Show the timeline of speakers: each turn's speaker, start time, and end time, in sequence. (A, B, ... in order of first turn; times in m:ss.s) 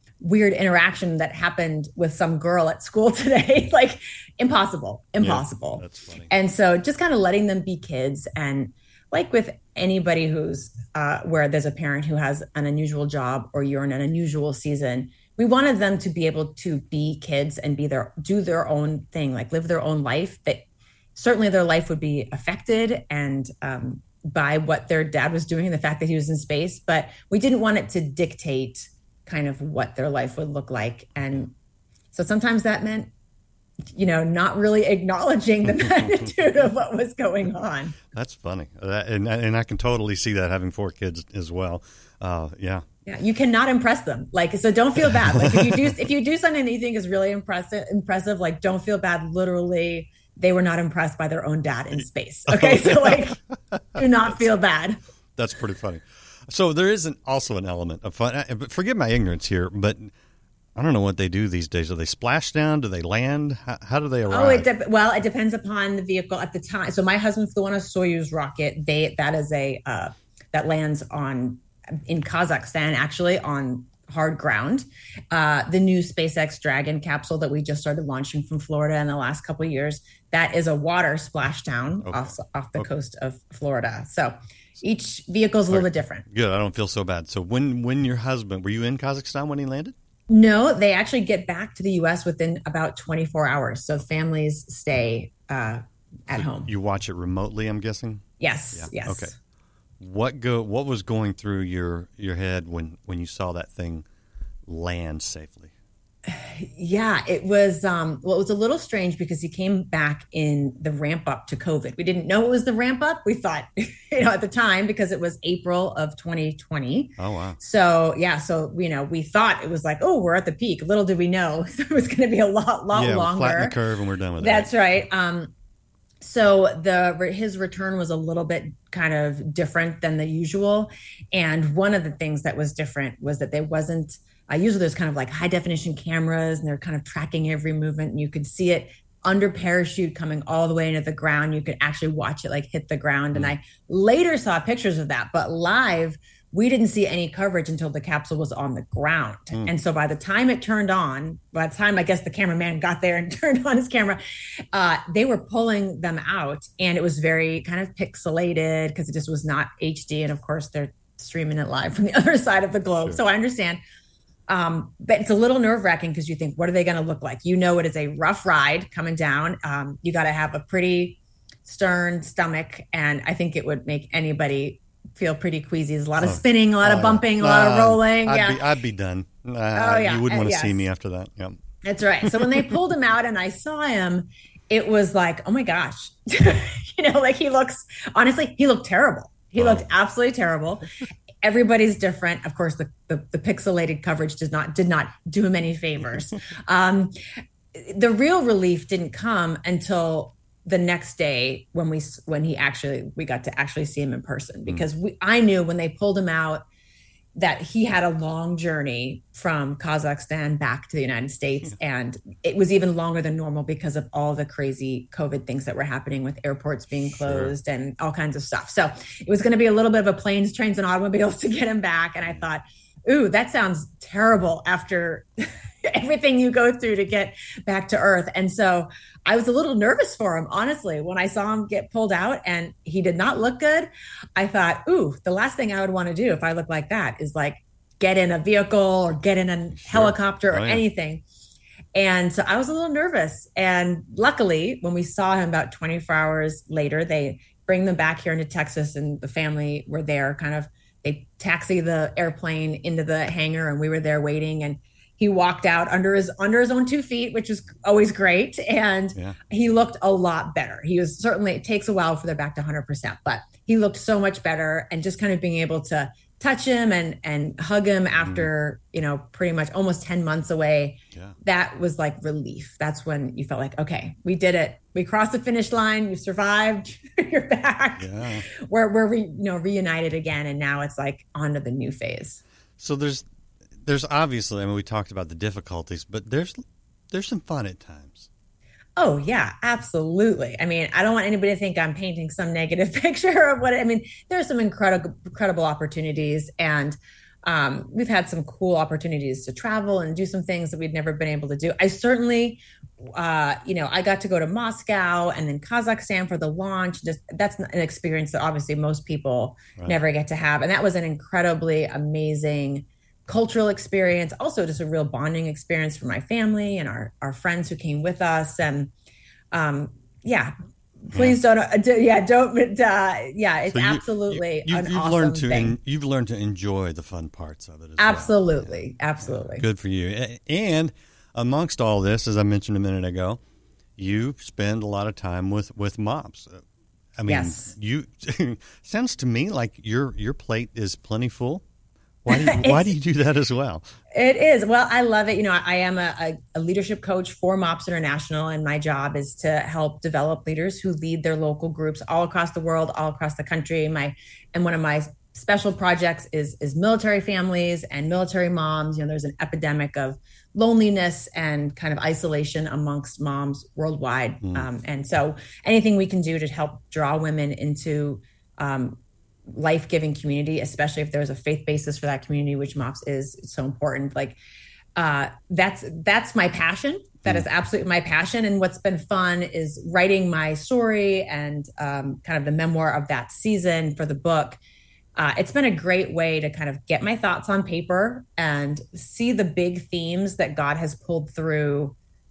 0:00.2-0:20.6 A
0:05.2-0:06.3 B
0:21.2-0:31.5 A
0:32.1-0:33.1 A
0:33.9-0:38.0 A
0:38.1-0:42.8 B
0:43.1-0:53.4 A
0:45.2-0:45.8 B
0:52.5-0:54.4 B
0:54.0-0:55.0 A
0:55.4-1:00.1 B
1:00.8-1:04.7 B
1:04.3-1:26.3 A
1:22.0-1:22.9 B
1:25.7-1:30.0 B
1:30.3-1:36.7 A
1:36.3-1:39.3 B
1:38.4-1:39.4 A
1:40.0-1:44.0 B
1:44.7-1:45.7 B
1:46.3-2:03.8 A
1:57.2-1:57.6 B
2:02.9-2:04.8 B
2:04.4-2:05.5 A
2:06.2-2:34.2 A
2:34.7-2:43.8 A
2:44.5-2:58.6 A
2:56.2-3:01.6 B
2:59.8-3:00.9 A
3:01.8-3:10.8 A
3:02.2-3:02.7 B
3:09.6-3:09.8 B
3:11.4-3:17.2 A
3:17.7-3:26.6 A
3:27.4-4:01.2 A
3:37.3-3:37.5 B
3:59.8-4:00.8 B
4:02.0-4:42.4 A
4:28.2-4:28.5 B
4:38.0-4:38.5 B
4:42.8-4:43.3 B
4:43.8-4:48.3 B
4:49.0-5:18.9 A
5:19.5-5:25.8 A
5:21.1-5:21.4 B
5:23.7-5:33.4 B
5:28.0-5:29.6 A
5:34.0-5:36.6 B
5:37.2-5:41.6 B
5:37.3-5:37.7 A
5:42.2-5:43.8 B
5:42.3-5:42.9 A
5:44.2-6:14.4 A
6:15.0-6:24.6 A
6:25.2-6:32.0 A